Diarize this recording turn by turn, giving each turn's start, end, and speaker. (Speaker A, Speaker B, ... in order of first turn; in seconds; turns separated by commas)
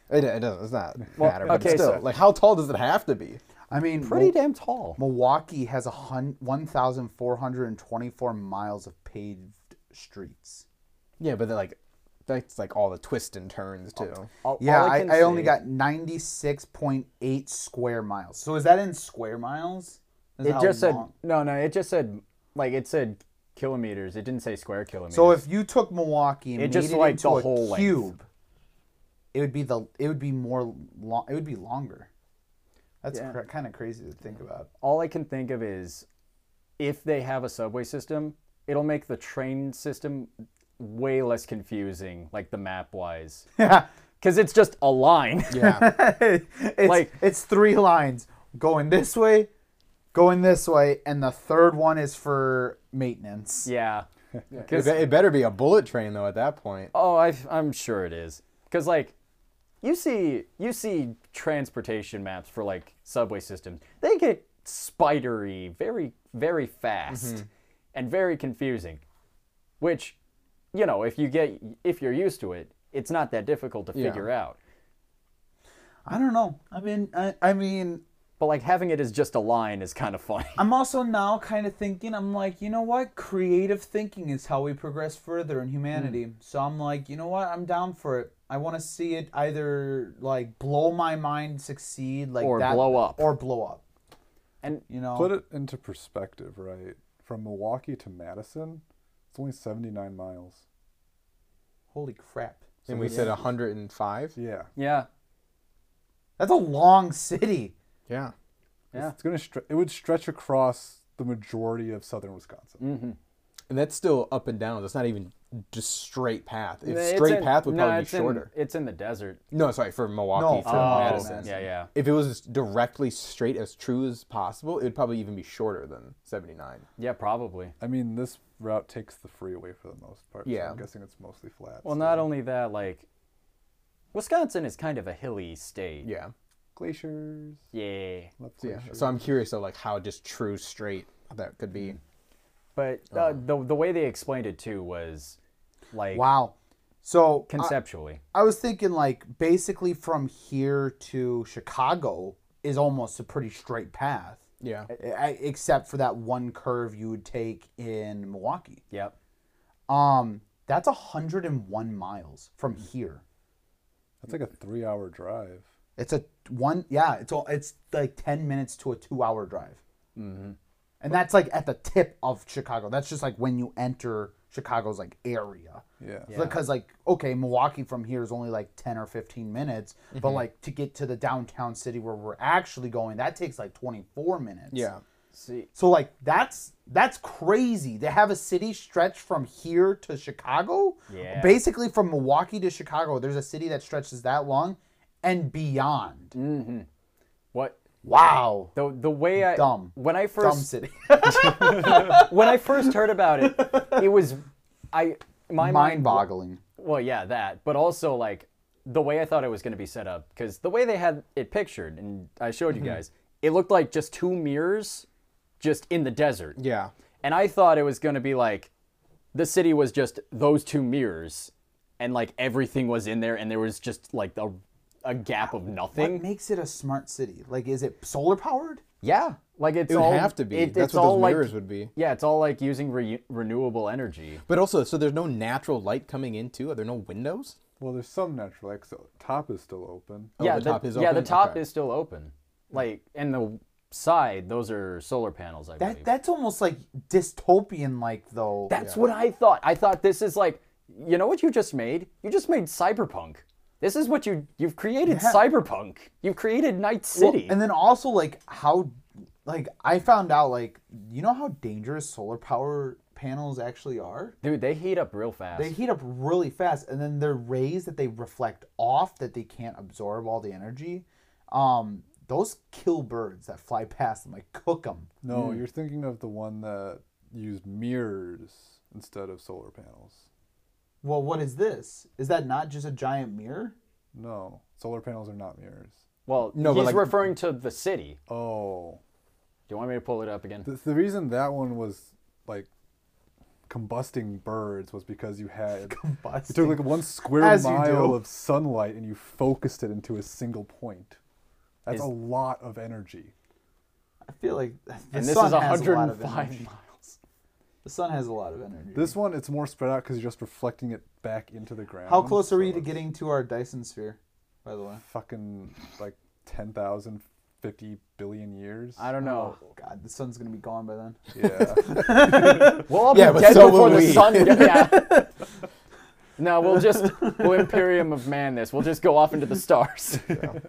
Speaker A: 0.1-3.4, Speaker B: 1.2-2.0, Speaker C: 3.7-4.3, Speaker B: 4.0-5.0, Speaker C: 5.0-10.7, Speaker A: 11.2-14.3, Speaker B: 14.4-15.6, Speaker C: 14.6-21.1, Speaker B: 20.4-25.4, Speaker C: 25.1-28.3, Speaker B: 26.6-28.1, Speaker C: 29.3-32.1, Speaker C: 33.0-34.7, Speaker B: 33.1-33.4, Speaker B: 34.8-36.1, Speaker B: 36.8-43.5, Speaker C: 43.6-43.9, Speaker B: 44.2-45.6, Speaker A: 45.5-45.9, Speaker C: 45.5-49.5, Speaker B: 46.8-47.1, Speaker C: 50.1-53.7, Speaker B: 53.6-55.1, Speaker A: 54.5-56.9, Speaker B: 56.9-59.1, Speaker B: 59.8-69.0, Speaker A: 67.1-67.5, Speaker B: 69.8-70.2, Speaker B: 70.7-74.6, Speaker A: 73.9-74.3, Speaker C: 76.1-78.0, Speaker B: 78.4-80.6, Speaker C: 80.6-93.8, Speaker B: 92.4-93.4, Speaker C: 94.9-95.3, Speaker D: 95.1-100.6, Speaker C: 101.9-103.1, Speaker D: 102.9-103.4, Speaker A: 102.9-104.4, Speaker D: 104.3-104.7, Speaker B: 104.8-105.1, Speaker C: 106.4-107.7, Speaker A: 108.1-108.3, Speaker D: 108.9-112.8, Speaker B: 112.8-113.2, Speaker A: 113.7-118.5, Speaker B: 116.8-119.4, Speaker A: 119.5-126.8, Speaker C: 120.3-121.6, Speaker B: 120.6-121.9, Speaker B: 127.0-127.7, Speaker D: 127.8-132.3, Speaker A: 130.5-130.8, Speaker B: 131.8-133.1, Speaker B: 134.1-136.1, Speaker A: 136.0-136.3, Speaker D: 136.8-137.6, Speaker B: 137.7-138.3, Speaker D: 138.4-139.2, Speaker A: 138.6-142.0, Speaker B: 142.8-145.4, Speaker B: 145.9-146.3, Speaker C: 146.1-147.8, Speaker B: 147.5-148.2, Speaker C: 148.3-158.8, Speaker A: 154.6-154.9, Speaker C: 159.9-163.2, Speaker D: 164.2-165.7, Speaker C: 166.0-169.8, Speaker B: 170.2-170.6, Speaker C: 171.0-184.9, Speaker D: 176.0-176.4, Speaker B: 176.3-176.6, Speaker A: 180.2-180.4, Speaker A: 184.7-185.0, Speaker B: 185.3-185.7, Speaker C: 185.8-196.3, Speaker B: 191.1-191.6, Speaker B: 196.3-196.9, Speaker B: 197.5-197.8, Speaker C: 198.0-198.8, Speaker B: 198.8-200.7, Speaker C: 199.4-204.1, Speaker B: 201.5-215.1, Speaker C: 205.6-206.6, Speaker B: 215.6-216.6, Speaker A: 216.6-216.9, Speaker B: 217.2-218.7, Speaker B: 219.3-226.3, Speaker C: 225.9-228.8, Speaker B: 229.0-234.4, Speaker A: 229.9-231.9, Speaker A: 234.5-237.6, Speaker D: 237.8-240.3, Speaker A: 240.4-241.6, Speaker B: 240.4-246.1, Speaker C: 245.8-248.7, Speaker B: 248.7-257.6, Speaker C: 255.1-255.5, Speaker C: 257.1-264.4, Speaker B: 264.4-265.8, Speaker C: 265.6-275.1, Speaker D: 275.2-280.2, Speaker C: 281.0-283.8, Speaker D: 284.1-286.0, Speaker B: 286.3-288.2, Speaker A: 286.5-287.3, Speaker D: 288.3-289.0, Speaker B: 289.7-290.7, Speaker D: 290.6-292.7, Speaker D: 293.7-301.2, Speaker C: 295.9-298.2, Speaker D: 301.9-303.3, Speaker C: 304.2-306.7, Speaker B: 305.1-307.2, Speaker C: 307.8-309.2, Speaker D: 308.9-313.1, Speaker C: 312.1-315.0, Speaker D: 315.0-319.1, Speaker B: 319.0-319.6, Speaker C: 319.2-322.9, Speaker D: 321.4-322.5, Speaker B: 322.9-325.1, Speaker A: 323.0-325.2, Speaker B: 326.4-330.4